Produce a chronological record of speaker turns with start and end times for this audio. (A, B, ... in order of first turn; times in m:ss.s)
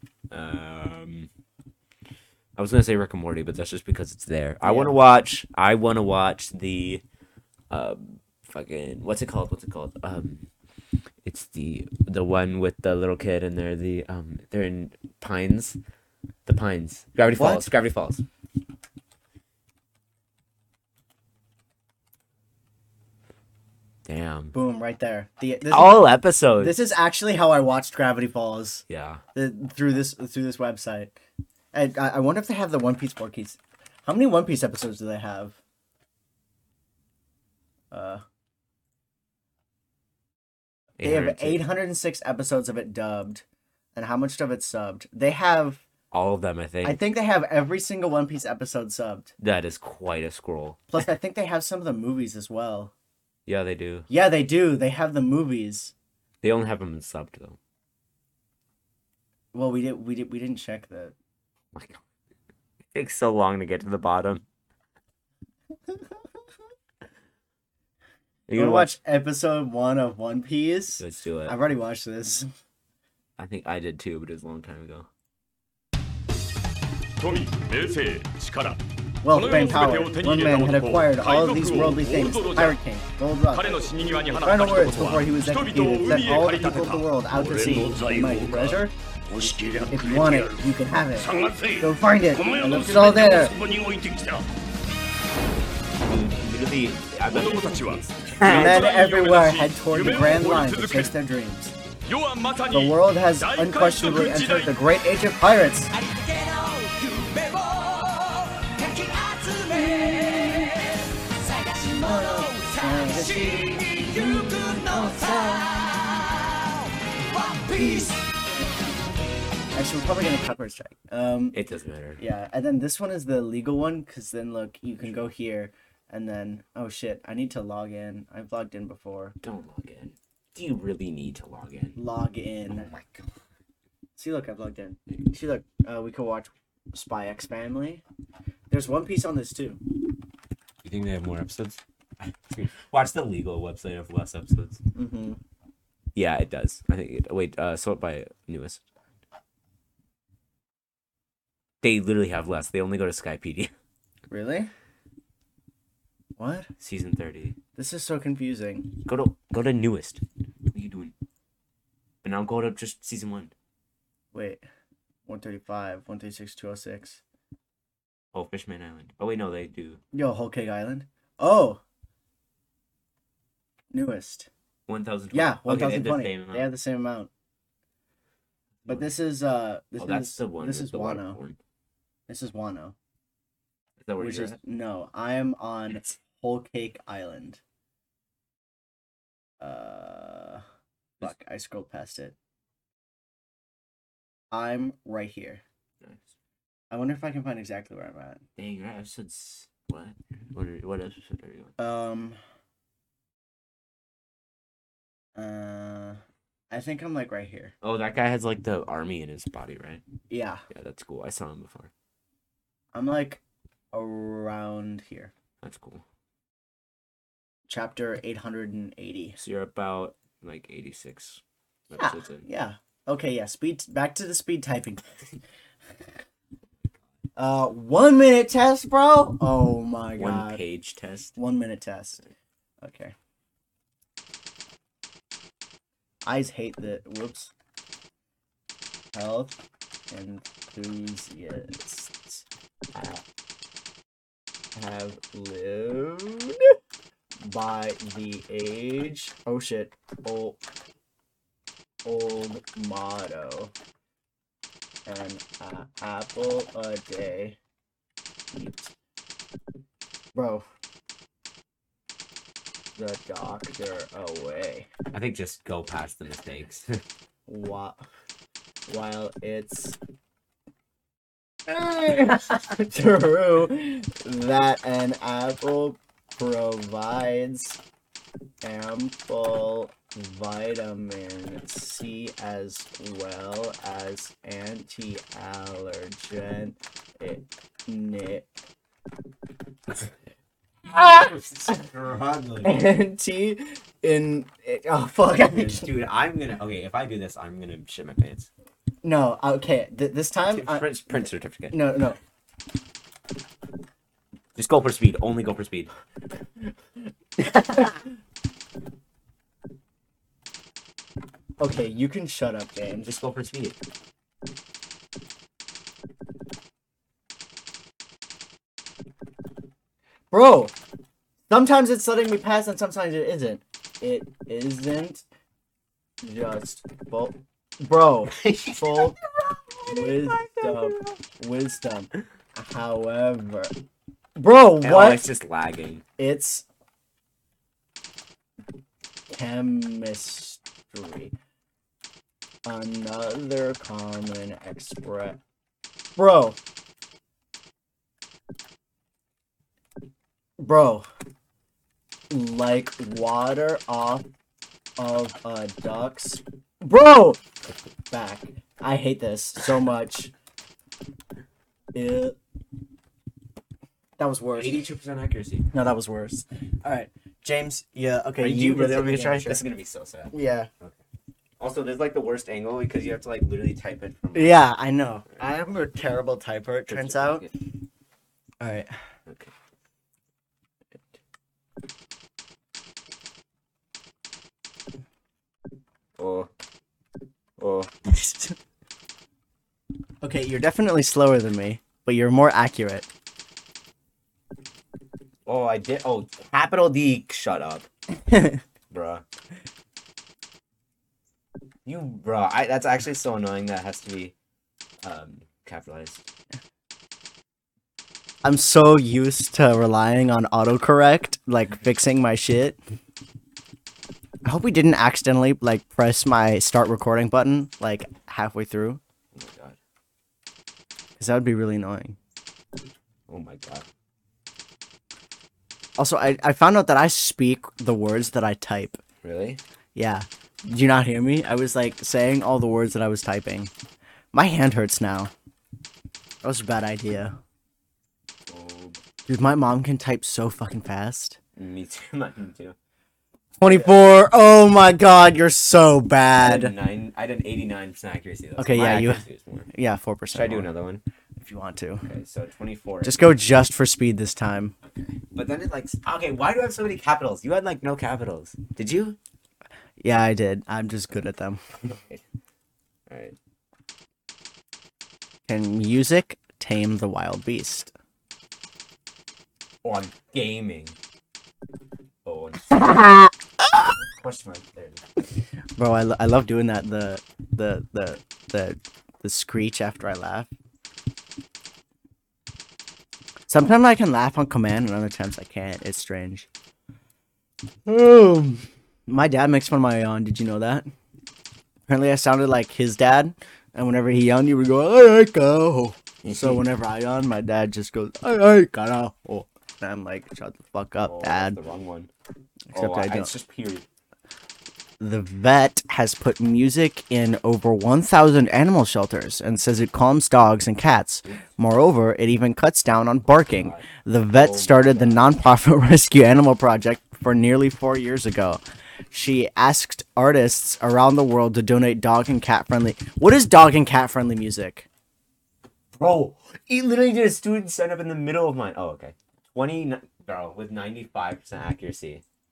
0:00.3-0:01.3 A
0:02.6-0:07.0 A
0:04.6-0:05.0 B
0:07.7-0:10.5 A
0:11.2-0:15.8 A
0:16.4-0:18.2 A
0:17.3-0:17.7 B
0:24.0-0:24.5 A
0:24.5-0:28.8 B
0:25.7-0:26.8 A
0:28.9-0:29.2 A
0:29.3-0:31.1 B
0:31.7-0:35.6 B
0:37.9-0:38.2 B
0:41.0-0:41.6 A
0:41.0-0:43.4 B
0:43.9-0:45.8 B
0:46.1-0:47.0 A
0:46.8-0:49.3 B
0:49.4-0:50.8 A
0:50.9-0:52.9 B
0:53.4-0:54.1 A
0:54.1-0:55.9 B
0:56.4-0:57.6 A
0:59.5-1:01.1 B
1:01.7-1:02.0 A
1:02.9-1:04.4 A
1:08.5-1:09.0 A
1:08.5-1:12.5 B
1:11.0-1:11.6 A
1:13.4-1:15.1 A
1:17.2-1:22.8 C
1:19.2-1:28.9 B
1:23.5-1:30.6 C
1:29.9-1:33.5 B
1:31.2-1:34.5 C
1:36.0-1:38.9 A
1:37.3-1:41.1 C
1:38.4-1:41.7 B
1:42.1-1:44.8 C
1:42.7-1:45.9 B
1:45.9-1:58.2 D
1:51.9-1:55.8 B
1:57.7-1:58.1 B
1:59.7-2:01.6 B
2:01.5-2:02.2 A
2:02.2-2:09.4 B
2:05.0-2:05.3 A
2:09.4-2:12.0 A
2:12.0-2:12.9 B
2:12.7-2:13.3 A
2:14.2-2:18.0 B
2:18.7-2:19.8 B
2:20.8-2:24.8 A
2:24.9-2:25.4 B
2:26.1-2:28.8 A
2:31.8-2:33.7 A
2:34.3-2:34.7 B
2:36.4-2:36.7 B
2:36.8-2:37.6 A
2:37.8-2:38.9 B
2:39.0-2:41.1 A
2:42.2-2:43.5 A
2:44.3-2:44.6 B
2:45.3-2:47.2 B
2:48.3-2:50.0 A
2:50.1-2:51.8 B
2:53.9-2:54.5 B
2:54.9-2:56.7 A
2:55.3-2:57.3 B
2:58.8-3:01.4 B
3:00.0-3:01.6 A
3:02.3-3:02.9 B
3:04.0-3:04.6 A
3:04.2-3:07.6 B
3:09.6-3:10.6 B
3:11.2-3:12.3 B
3:14.5-3:15.6 B
3:16.0-3:16.3 A
3:16.9-3:18.4 B
3:18.6-3:21.7 A
3:21.8-3:22.4 B
3:25.4-3:26.2 B
3:26.7-3:27.7 B
3:27.8-3:30.0 A
3:30.3-3:30.6 B
3:30.7-3:31.9 A
3:32.9-3:33.4 B
3:33.9-3:35.3 B
3:35.6-3:36.0 A
3:37.7-3:39.4 B
3:39.4-3:42.4 A
3:41.9-3:45.3 B
3:47.4-3:50.6 B
3:50.2-3:51.4 A
3:51.4-3:52.2 B
3:52.8-3:53.1 B
3:56.2-3:57.5 B
3:59.1-3:59.5 B
4:00.1-4:03.2 B
4:04.7-4:06.8 B
4:07.4-4:10.6 B
4:12.0-4:13.7 B
4:15.0-4:17.6 B
4:18.5-4:18.9 B
4:20.3-4:20.6 B
4:23.0-4:24.9 B
4:25.1-4:27.0 A
4:27.5-4:28.0 B
4:28.9-4:30.0 B
4:31.7-4:37.8 B
4:38.6-4:48.5 B
4:50.9-4:51.8 B
4:51.0-4:52.8 A
4:52.6-4:55.9 B
4:55.5-4:58.5 A
4:59.0-5:02.2 B
5:00.5-5:02.1 A
5:04.5-5:05.9 A
5:07.4-5:08.0 A
5:11.6-5:13.1 B
5:13.0-5:13.8 A
5:20.3-5:20.8 B
5:21.5-5:25.2 B
5:26.2-5:29.2 B
5:28.3-5:31.2 A
5:29.8-5:33.7 B
5:34.4-5:35.2 B
5:34.8-5:36.0 A
5:36.2-5:36.6 B
5:39.3-5:41.4 B
5:42.6-5:45.4 B
5:46.2-5:46.6 B
5:50.6-5:51.1 B
5:52.3-5:54.3 B
5:55.0-5:57.4 B
5:58.1-6:00.3 B
6:01.9-6:02.4 B
6:04.2-6:04.9 B
6:04.6-6:05.7 A
6:05.7-6:09.6 B
6:08.4-6:11.0 A
6:10.3-6:10.7 B
6:11.6-6:14.6 A
6:14.3-6:17.5 B
6:16.9-6:17.5 A
6:18.6-6:18.9 B
6:19.3-6:19.5 A
6:26.2-6:26.5 A
6:27.6-6:27.9 A
6:28.0-6:28.5 B
6:30.2-6:33.1 B
6:35.4-6:37.9 A
6:38.2-6:38.6 B
6:38.9-6:39.2 A
6:41.8-6:44.3 A
6:45.0-6:46.2 A
6:48.4-6:52.8 B
6:54.4-6:59.0 B
6:59.3-6:59.8 A
7:01.2-7:02.2 B
7:03.3-7:03.8 A
7:06.0-7:09.0 B
7:09.2-7:09.6 A
7:09.9-7:13.7 B
7:14.3-7:15.3 B
7:16.4-7:17.4 B
7:18.5-7:19.0 A
7:19.3-7:21.4 B
7:21.6-7:22.8 A
7:23.6-7:26.7 B
7:23.6-7:23.9 A
7:26.4-7:29.7 A
7:28.6-7:30.7 B
7:30.3-7:31.0 A
7:31.4-7:32.1 B
7:32.0-7:33.3 A
7:33.0-7:34.7 B
7:34.8-7:39.2 A
7:40.0-7:41.6 B
7:41.8-7:42.2 A
7:43.1-7:43.4 A
7:45.5-7:47.9 B
7:49.8-7:51.0 A
7:52.2-7:53.0 A
7:52.7-7:54.0 B
7:54.0-7:55.0 A
7:55.8-8:00.5 B
8:03.5-8:06.5 B
8:07.8-8:10.9 B
8:11.9-8:21.6 B
8:16.2-8:16.6 A
8:21.0-8:22.1 A
8:22.7-8:23.3 B
8:22.7-8:23.8 A
8:25.0-8:44.9 B
8:33.5-8:35.4 A
8:46.0-8:52.2 A